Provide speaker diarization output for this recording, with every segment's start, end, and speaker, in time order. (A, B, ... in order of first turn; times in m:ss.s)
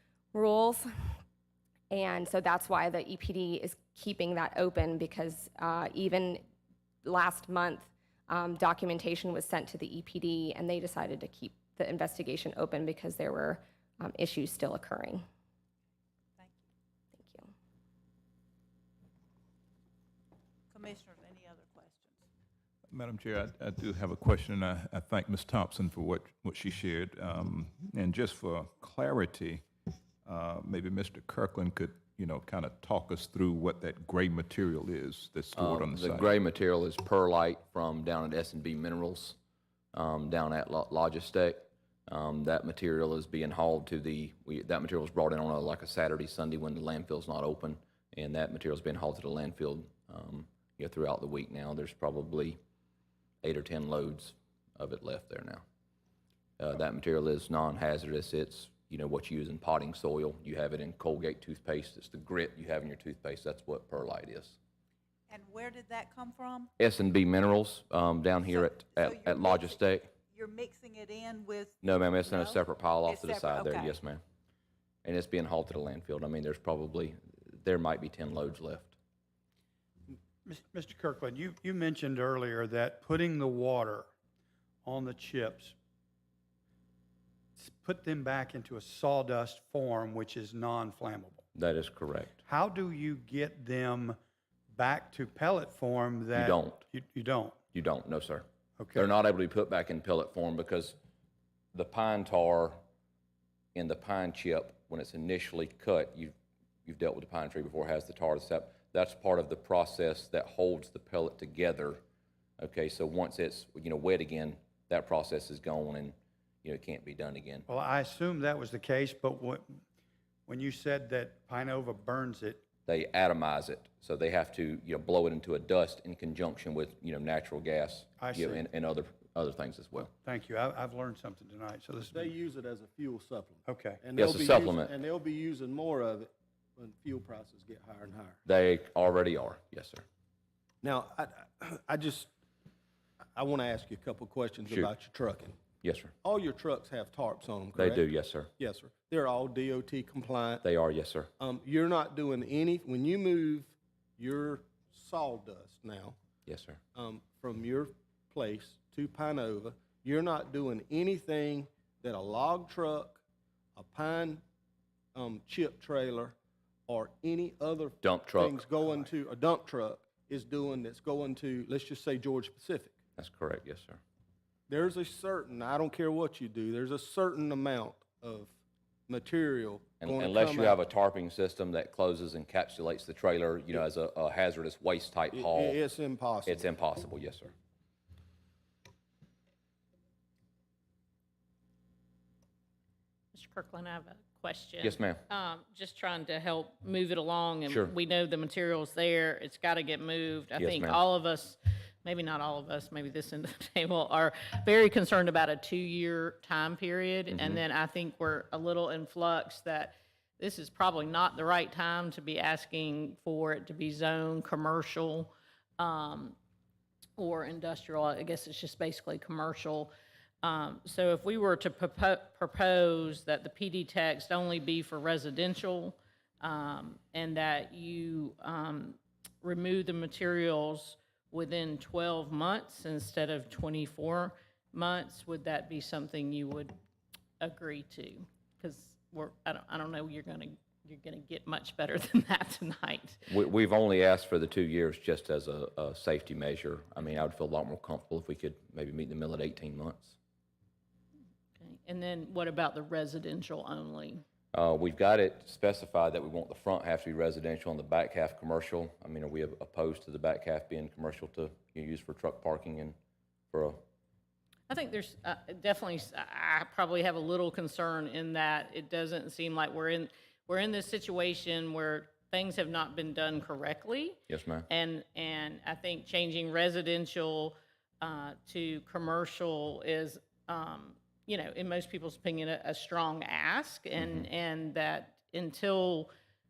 0:00.3-0:00.9 A
0:01.9-0:06.4 A
0:07.0-0:15.2 A
0:17.1-0:17.5 A
0:20.7-0:22.2 B
0:22.9-0:29.6 C
0:30.2-0:36.3 C
0:35.5-0:39.4 D
0:39.9-0:52.6 D
0:53.4-0:55.6 D
0:56.6-1:04.6 D
1:05.3-1:06.7 B
1:06.8-1:10.1 D
1:08.5-1:13.9 B
1:11.8-1:14.2 D
1:15.0-1:18.9 D
1:20.4-1:24.1 E
1:24.8-1:25.8 E
1:27.6-1:31.4 E
1:31.5-1:32.4 D
1:32.4-1:34.2 E
1:34.7-1:37.5 E
1:36.3-1:36.8 D
1:37.7-1:41.0 D
1:38.8-1:39.1 E
1:41.7-1:42.8 D
1:43.7-1:46.3 D
1:46.8-1:52.0 D
1:52.6-1:57.6 D
1:57.7-1:59.7 E
2:00.5-2:02.6 E
2:02.8-2:10.1 D
2:08.2-2:08.6 E
2:10.2-2:12.3 E
2:12.1-2:18.4 F
2:13.6-2:14.0 E
2:14.2-2:14.9 D
2:18.4-2:20.0 D
2:20.8-2:22.3 F
2:23.3-2:25.6 F
2:25.8-2:26.1 D
2:26.2-2:28.1 F
2:27.8-2:28.5 D
2:28.6-2:30.6 F
2:30.6-2:31.3 D
2:31.4-2:36.2 F
2:36.4-2:36.8 D
2:36.9-2:43.2 F
2:43.8-2:44.4 F
2:45.1-2:46.3 F
2:46.9-2:53.0 F
2:48.0-2:48.6 D
2:53.2-2:54.0 D
2:54.7-2:58.5 F
2:59.1-3:00.8 F
3:00.0-3:05.8 D
3:05.3-3:06.7 F
3:06.4-3:07.5 D
3:13.3-3:36.4 G
3:14.8-3:15.2 D
3:17.7-3:17.9 D
3:20.6-3:21.0 D
3:27.3-3:27.6 D
3:37.2-3:39.9 G
3:40.4-3:56.7 G
3:57.4-4:03.2 G
4:03.3-4:10.2 D
4:11.6-4:14.2 G
4:14.5-4:23.0 D
4:23.5-4:23.8 D
4:24.7-4:46.1 G
4:34.3-4:34.7 D